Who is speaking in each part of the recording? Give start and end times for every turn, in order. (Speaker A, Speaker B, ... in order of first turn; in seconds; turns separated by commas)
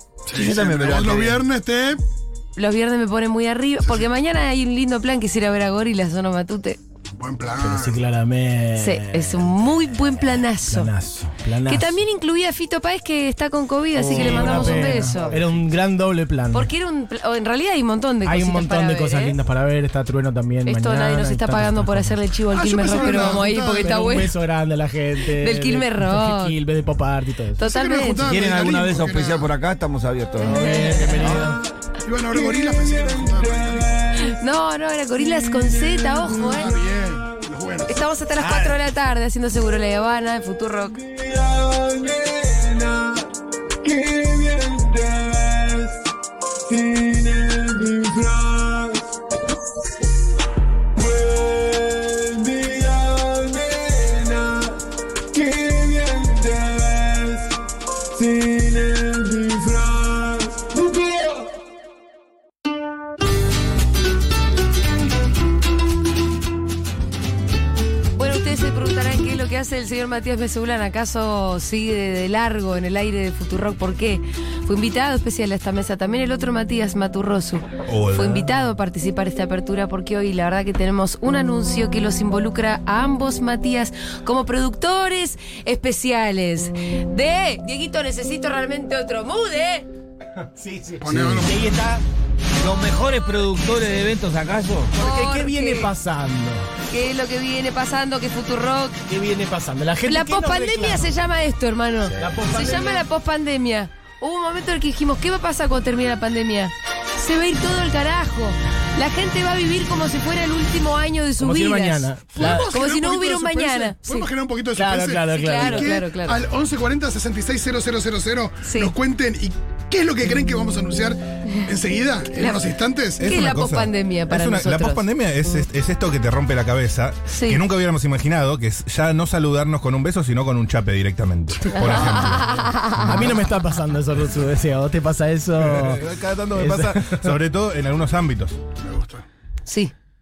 Speaker A: 0.3-2.0, Speaker B: 0.3-1.4, Speaker C: 2.5-6.8, Speaker A: 7.2-8.0, Speaker D: 7.6-9.5, Speaker C: 8.8-10.9, Speaker D: 10.6-12.0, Speaker C: 11.7-15.4, Speaker D: 14.0-16.7, Speaker B: 14.1-14.4, Speaker C: 16.5-19.4, Speaker D: 18.2-22.2, Speaker C: 20.7-24.3, Speaker A: 22.5-24.0, Speaker D: 22.7-27.6, Speaker C: 25.4-26.6, Speaker C: 27.6-28.2, Speaker A: 27.6-29.5, Speaker B: 28.2-31.6, Speaker D: 30.4-31.6, Speaker C: 30.6-31.1, Speaker A: 32.0-34.0, Speaker C: 34.2-36.8, Speaker A: 36.5-38.0, Speaker C: 37.9-41.0, Speaker B: 38.4-38.8, Speaker C: 68.2-89.9, Speaker E: 77.9-78.5, Speaker D: 90.6-92.0, Speaker A: 91.0-91.6, Speaker B: 91.1-91.5, Speaker B: 92.6-94.9, Speaker D: 95.0-96.7, Speaker C: 95.0-95.9, Speaker C: 96.9-99.0, Speaker D: 99.1-101.1, Speaker C: 100.1-114.3, Speaker D: 102.2-103.0, Speaker D: 111.4-112.7, Speaker A: 112.3-123.3, Speaker D: 114.8-115.9, Speaker C: 115.3-116.4, Speaker C: 118.6-118.9, Speaker C: 122.3-122.6, Speaker C: 123.2-125.0, Speaker E: 123.2-133.1, Speaker C: 127.3-127.6, Speaker C: 131.7-133.4, Speaker D: 133.1-136.0, Speaker E: 135.6-138.6, Speaker D: 136.6-137.3, Speaker A: 138.8-139.2, Speaker C: 139.7-139.9